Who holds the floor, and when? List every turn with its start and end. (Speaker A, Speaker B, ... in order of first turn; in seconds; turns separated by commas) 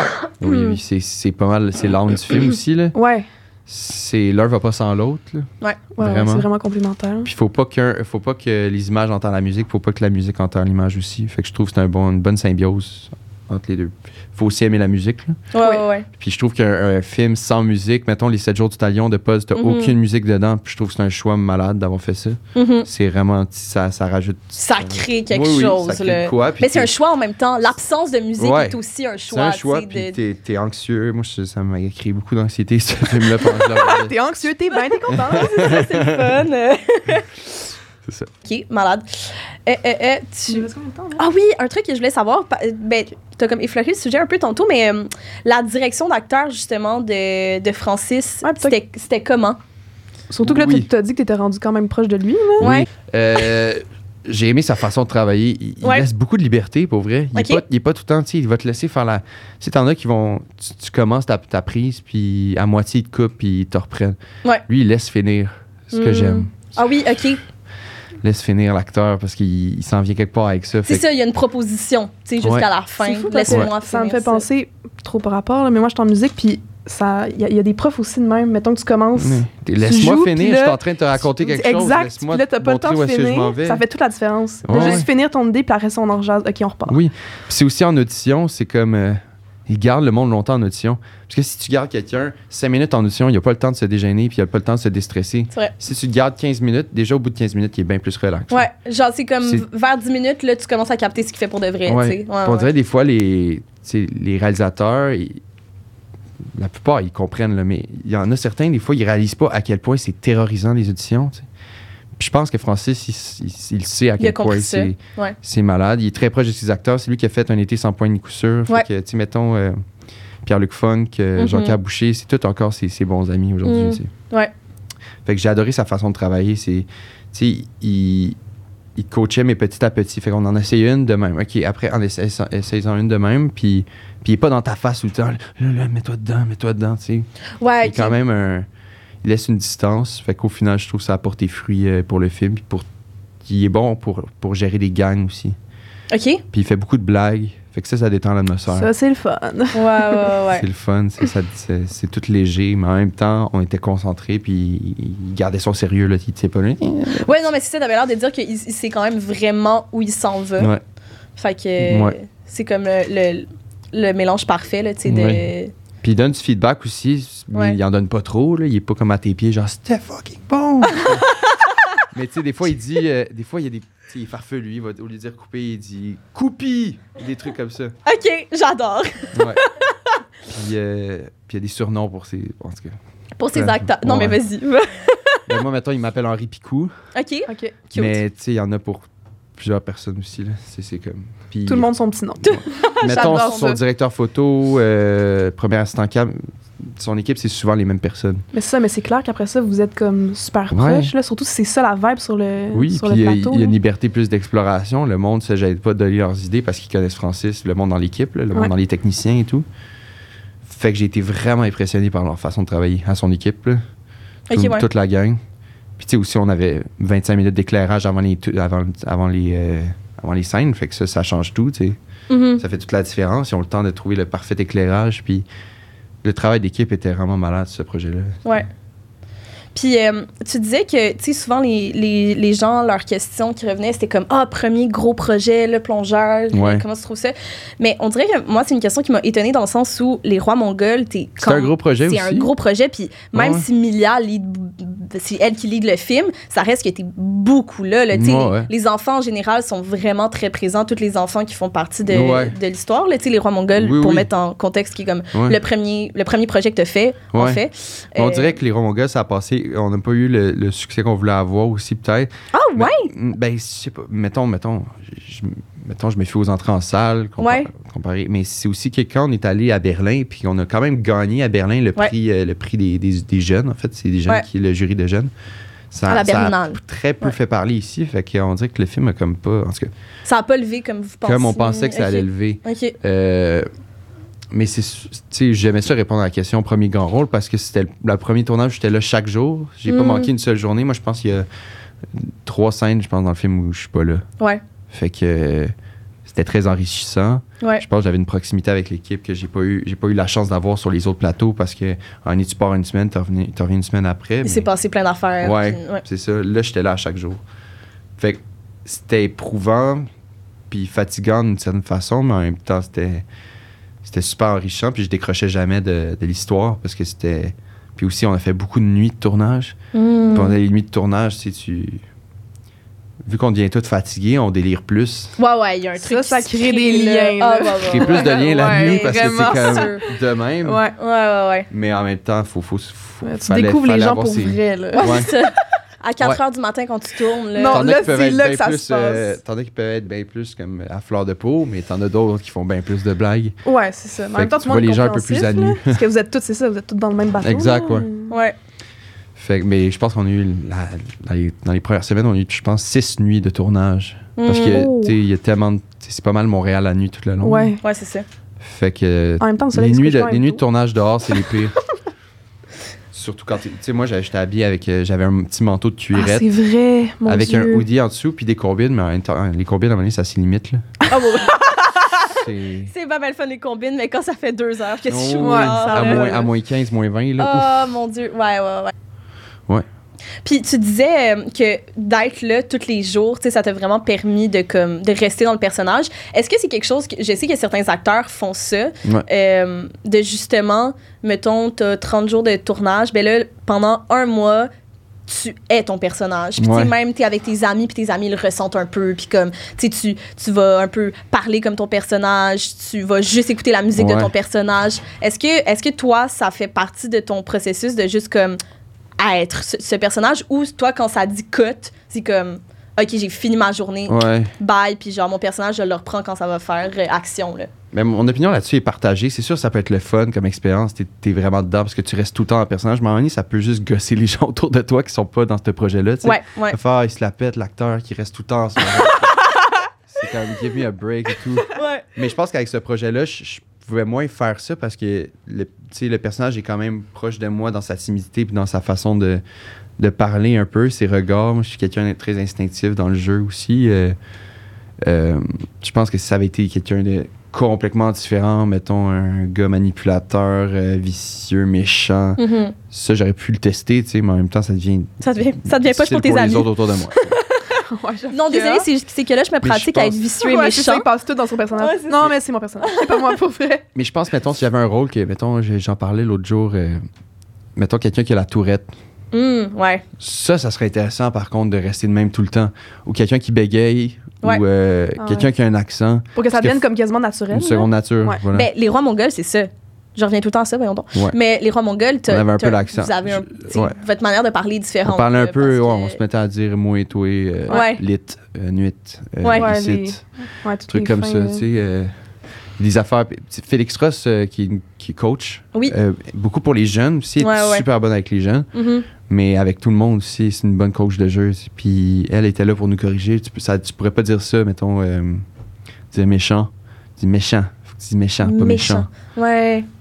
Speaker A: 0.4-3.0, Speaker B: 2.9-3.3, Speaker A: 3.7-6.5, Speaker B: 6.0-7.3, Speaker A: 7.2-15.4, Speaker C: 15.5-16.1, Speaker A: 16.1-26.9, Speaker C: 19.6-19.9, Speaker C: 22.6-22.9, Speaker C: 24.6-30.2, Speaker A: 28.4-28.8, Speaker A: 29.3-34.2, Speaker B: 33.5-36.0, Speaker A: 35.1-36.3, Speaker C: 35.3-37.4, Speaker A: 38.0-38.3, Speaker C: 38.5-49.6, Speaker B: 40.5-41.2, Speaker B: 48.4-48.8, Speaker B: 50.3-52.8, Speaker A: 50.4-50.9, Speaker C: 52.6-52.9, Speaker A: 52.6-66.6, Speaker C: 55.8-56.1, Speaker C: 57.4-57.6, Speaker C: 65.9-67.4, Speaker A: 68.2-71.0, Speaker C: 70.9-74.5, Speaker A: 72.4-72.7, Speaker B: 73.0-87.0, Speaker A: 79.2-83.8, Speaker A: 84.7-85.1, Speaker A: 86.9-98.7, Speaker C: 98.5-102.7, Speaker A: 101.9-105.4, Speaker A: 106.5-111.5, Speaker A: 112.2-119.8, Speaker C: 114.2-115.4, Speaker A: 120.4-124.1, Speaker C: 121.4-121.8, Speaker C: 123.6-124.5, Speaker A: 125.2-128.4, Speaker A: 129.0-137.3, Speaker C: 137.6-138.2, Speaker A: 137.8-138.7, Speaker A: 139.2-142.9, Speaker A: 143.4-145.6, Speaker C: 146.1-146.4, Speaker A: 146.5-148.9, Speaker B: 148.7-150.3, Speaker C: 149.7-150.7, Speaker A: 150.5-157.3, Speaker C: 157.1-160.7, Speaker C: 161.4-165.7, Speaker A: 161.8-162.2, Speaker A: 165.1-165.5, Speaker A: 166.0-171.3, Speaker C: 170.9-172.0, Speaker A: 172.1-177.9, Speaker C: 178.1-179.9, Speaker A: 179.3-179.6, Speaker A: 180.5-183.0, Speaker C: 183.4-185.5, Speaker A: 183.5-184.4, Speaker A: 185.5-186.9, Speaker C: 187.1-188.2, Speaker B: 187.5-187.8, Speaker A: 187.9-191.9, Speaker B: 191.7-193.8, Speaker C: 192.4-193.6, Speaker A: 192.4-198.4, Speaker B: 198.5-203.8, Speaker A: 200.7-201.1, Speaker A: 202.7-209.7, Speaker A: 210.7-213.8, Speaker C: 214.5-214.9, Speaker A: 214.5-215.4, Speaker A: 216.0-222.0, Speaker C: 222.3-222.6, Speaker A: 222.6-225.5, Speaker A: 226.2-228.4, Speaker C: 229.7-258.6, Speaker A: 236.5-236.8, Speaker A: 241.4-242.5, Speaker A: 243.3-243.7, Speaker A: 248.1-248.7, Speaker A: 252.1-252.6, Speaker A: 253.8-254.3, Speaker A: 255.3-255.6, Speaker A: 257.3-257.6, Speaker A: 258.1-275.3, Speaker C: 262.5-263.1, Speaker C: 267.4-267.7, Speaker A: 275.9-279.9, Speaker C: 276.1-277.4, Speaker C: 280.2-283.0, Speaker A: 281.2-283.7, Speaker A: 284.5-291.5, Speaker C: 289.9-290.3, Speaker A: 292.1-294.2, Speaker A: 294.9-295.7, Speaker A: 296.3-304.7, Speaker C: 304.4-306.0, Speaker A: 305.4-307.4, Speaker A: 308.2-310.1, Speaker A: 310.7-313.3, Speaker A: 314.0-319.8, Speaker C: 319.9-320.6, Speaker A: 320.3-322.0, Speaker A: 323.2-325.4, Speaker C: 325.4-330.1, Speaker B: 326.0-329.9, Speaker A: 327.8-330.9, Speaker B: 330.6-331.0, Speaker C: 331.0-331.7, Speaker A: 331.7-335.3, Speaker B: 333.2-335.4, Speaker C: 334.9-337.9, Speaker B: 337.5-339.4, Speaker A: 337.6-343.6, Speaker B: 343.6-348.3, Speaker A: 344.3-346.0, Speaker A: 347.4-348.1, Speaker C: 348.3-348.6, Speaker A: 349.4-357.8, Speaker C: 354.4-354.8, Speaker B: 354.6-355.1, Speaker B: 357.4-357.8, Speaker C: 357.8-358.2, Speaker A: 358.6-361.8, Speaker B: 359.4-360.6, Speaker B: 361.3-361.6, Speaker A: 363.1-366.5, Speaker B: 366.1-367.9, Speaker A: 367.3-370.9, Speaker C: 371.1-376.5, Speaker B: 371.1-371.8, Speaker A: 372.3-372.9, Speaker A: 375.1-377.9, Speaker B: 375.4-376.3, Speaker C: 377.4-378.9, Speaker C: 380.4-394.7, Speaker C: 395.3-408.6, Speaker A: 396.6-396.9, Speaker A: 404.0-404.3, Speaker C: 409.2-417.7, Speaker A: 414.1-414.5, Speaker A: 417.9-429.5, Speaker C: 426.2-426.8, Speaker A: 430.1-439.4, Speaker C: 431.7-432.1, Speaker A: 440.0-444.2, Speaker A: 445.0-457.4, Speaker C: 452.4-452.8, Speaker C: 455.2-456.7, Speaker B: 457.7-458.9, Speaker C: 458.3-461.1, Speaker A: 459.6-460.2, Speaker B: 460.4-463.8, Speaker C: 461.8-462.3, Speaker C: 462.8-463.4, Speaker A: 463.9-467.0, Speaker A: 467.8-468.9, Speaker C: 469.3-470.0, Speaker A: 470.2-476.8, Speaker B: 475.2-475.5, Speaker B: 476.4-478.4, Speaker A: 477.5-478.7, Speaker C: 478.5-486.2, Speaker A: 482.3-484.0, Speaker A: 485.0-490.2, Speaker C: 487.7-488.0, Speaker C: 489.4-489.7, Speaker B: 489.5-491.6, Speaker A: 490.9-492.1, Speaker A: 492.8-498.7, Speaker C: 497.4-497.9, Speaker C: 498.7-499.1, Speaker A: 499.2-505.4, Speaker A: 506.1-509.1, Speaker C: 508.4-509.9